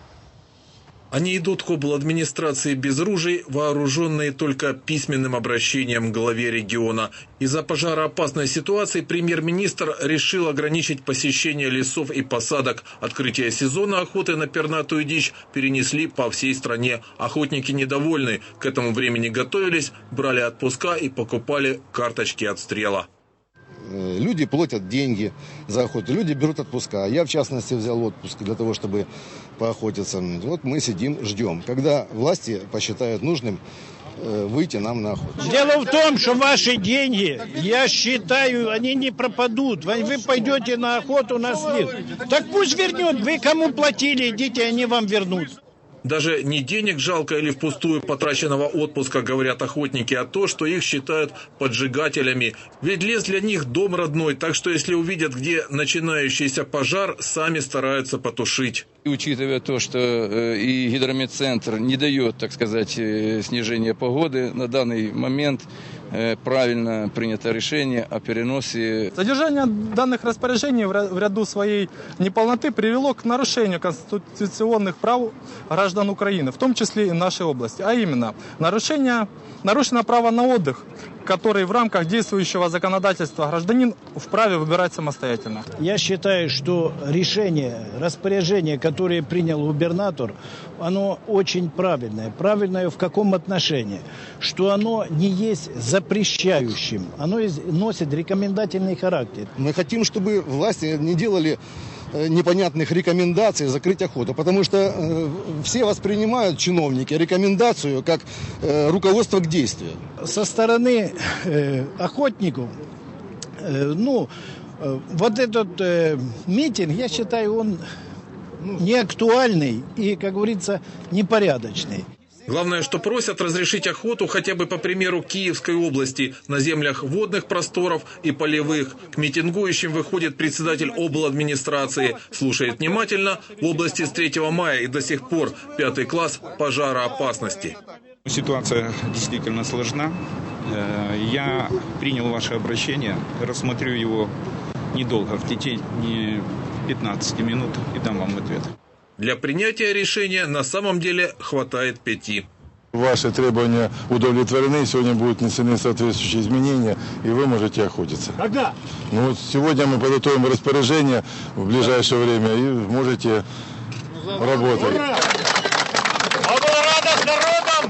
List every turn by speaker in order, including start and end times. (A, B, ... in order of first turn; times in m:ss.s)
0:01.1-0:23.1 A
0:23.9-0:29.1 B
0:29.6-0:33.6 B
0:34.2-0:35.4 B
0:35.4-0:45.5 C
0:46.0-0:58.9 A
0:59.0-1:09.1 D
1:09.2-1:25.6 E
1:25.8-1:39.5 C
1:39.6-1:41.6 B
1:42.1-1:50.0 B
1:50.2-1:52.7 C
1:53.6-1:57.8 C
1:58.7-2:02.0 C
2:02.5-2:17.8 A
2:18.2-2:20.1 F
2:20.7-2:24.3 F
2:24.9-2:28.7 F
2:29.2-2:32.5 A
2:32.9-2:38.4 G
2:39.1-2:43.4 G
2:44.3-2:45.1 G
2:46.7-2:47.3 G